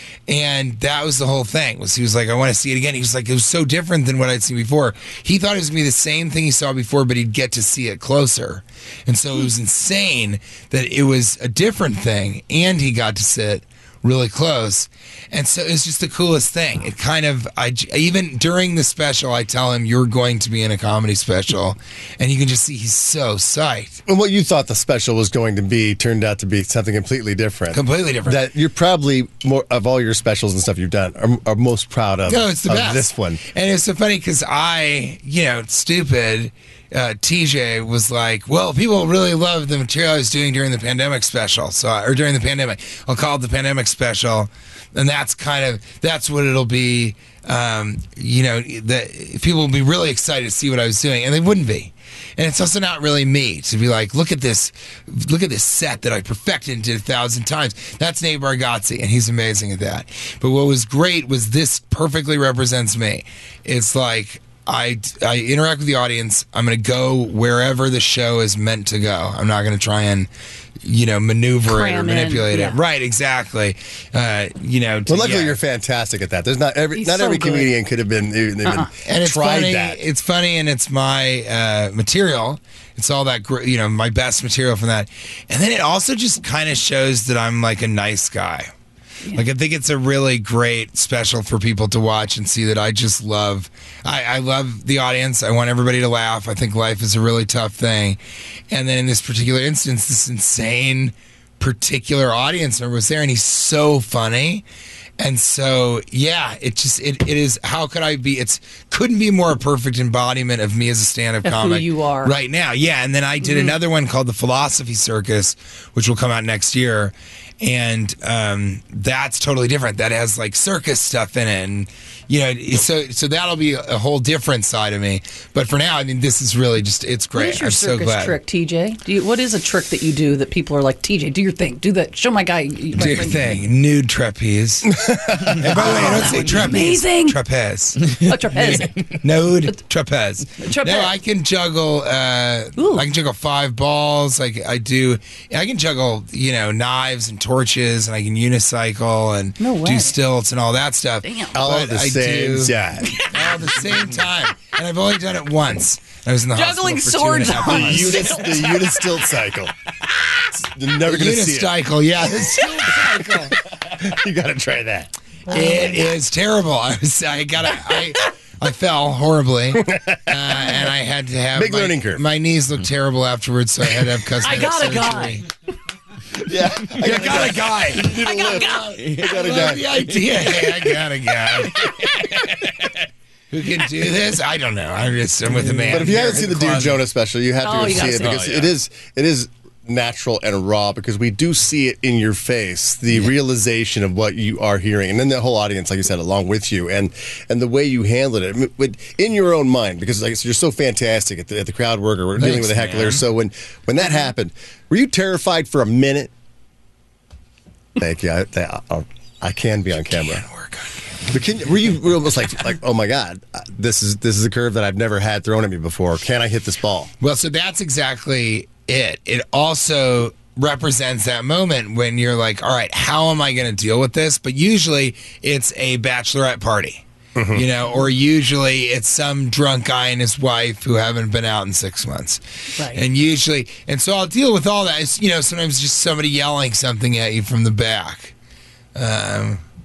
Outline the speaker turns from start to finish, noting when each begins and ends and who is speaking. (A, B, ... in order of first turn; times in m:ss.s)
0:00.3-0:24.0 A
0:24.0-0:33.4 B
0:27.7-0:28.4 A
0:32.3-1:10.3 A
1:10.8-1:15.6 A
1:11.7-1:12.8 C
1:15.1-1:20.0 B
1:17.0-1:17.7 C
1:18.6-1:18.9 C
1:19.0-1:28.7 A
1:29.3-1:38.2 A
1:38.7-1:44.6 A
1:45.2-2:08.4 A
1:51.4-1:52.3 C
1:53.4-1:53.8 C
2:07.3-2:13.4 C
2:12.9-2:38.4 A
2:14.9-2:16.1 B
2:15.6-2:17.4 C
2:18.1-2:19.0 C
2:20.6-2:21.1 C
2:22.8-2:23.0 C
2:29.6-2:30.1 C
2:31.2-2:31.6 C
2:31.5-2:33.2 B
2:36.5-2:39.0 C
2:37.6-2:39.7 B
2:40.5-2:41.7 B
2:41.0-2:43.6 A
2:43.7-2:45.1 B
2:45.5-2:55.4 A
2:45.5-2:46.0 C
2:49.8-2:50.3 B
2:51.6-2:52.2 B
2:54.4-2:55.4 C
2:56.4-3:00.0 B
2:56.9-3:02.9 A
2:58.1-2:59.0 C
3:01.8-3:02.4 C
3:03.5-3:07.0 A
3:05.8-3:26.3 B
3:07.6-3:08.4 C
3:08.3-3:08.7 A
3:22.4-3:23.2 A
3:28.0-3:30.4 B
3:30.1-3:31.2 A
3:31.2-3:37.1 B
3:37.2-3:58.3 A
3:47.4-3:47.6 B
3:52.8-3:53.0 C
3:58.9-3:59.6 A